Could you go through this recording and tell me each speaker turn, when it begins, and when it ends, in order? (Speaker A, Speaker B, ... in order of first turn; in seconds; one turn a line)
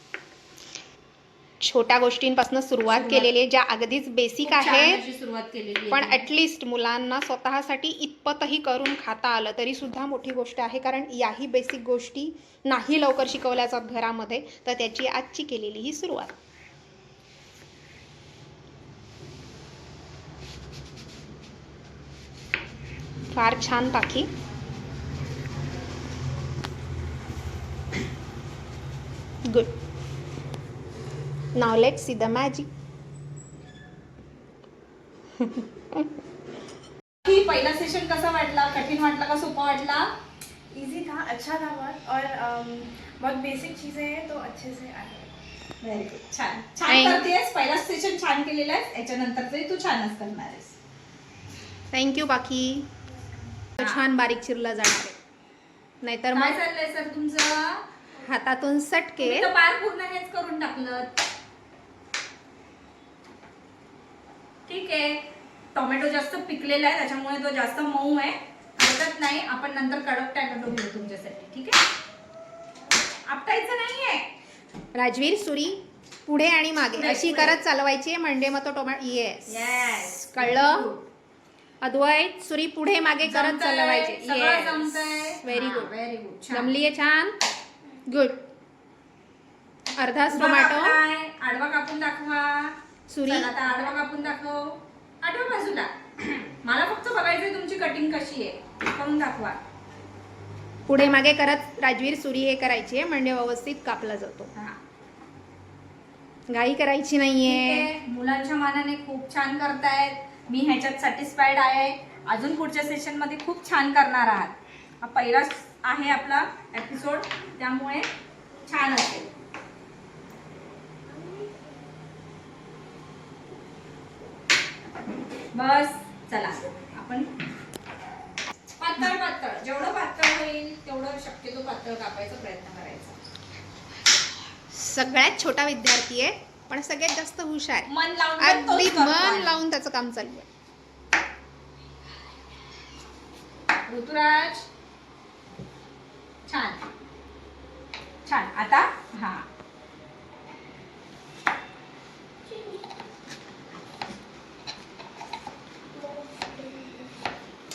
Speaker A: 1.6-5.0
Speaker B: 2.8-3.3
Speaker B: 4.4-6.3
Speaker A: 5.9-16.4
Speaker A: 23.3-24.3
Speaker A: 31.5-32.7
Speaker A: 35.4-36.0
Speaker B: 37.2-40.1
Speaker C: 40.7-45.4
Speaker B: 45.8-50.7
Speaker A: 46.9-47.2
Speaker A: 51.9-52.9
Speaker A: 53.8-55.1
Speaker B: 53.8-54.0
Speaker A: 56.0-56.6
Speaker B: 56.3-57.8
Speaker A: 58.2-59.5
Speaker B: 59.2-61.1
Speaker B: 64.7-71.8
Speaker B: 73.2-74.3
Speaker A: 74.9-80.9
Speaker B: 77.0-77.6
Speaker B: 79.5-81.0
Speaker A: 81.8-85.9
Speaker B: 83.2-86.7
Speaker A: 86.5-87.4
Speaker A: 88.1-88.4
Speaker A: 90.0-91.0
Speaker B: 90.3-99.6
Speaker A: 93.1-93.7
Speaker A: 100.9-104.5
Speaker A: 106.5-107.9
Speaker B: 107.4-118.1
Speaker B: 118.7-119.3
Speaker B: 125.5-127.3
Speaker B: 128.8-133.2
Speaker A: 134.7-140.4
Speaker B: 137.9-139.6
Speaker B: 143.8-144.7
Speaker B: 146.5-146.9
Speaker B: 148.2-149.4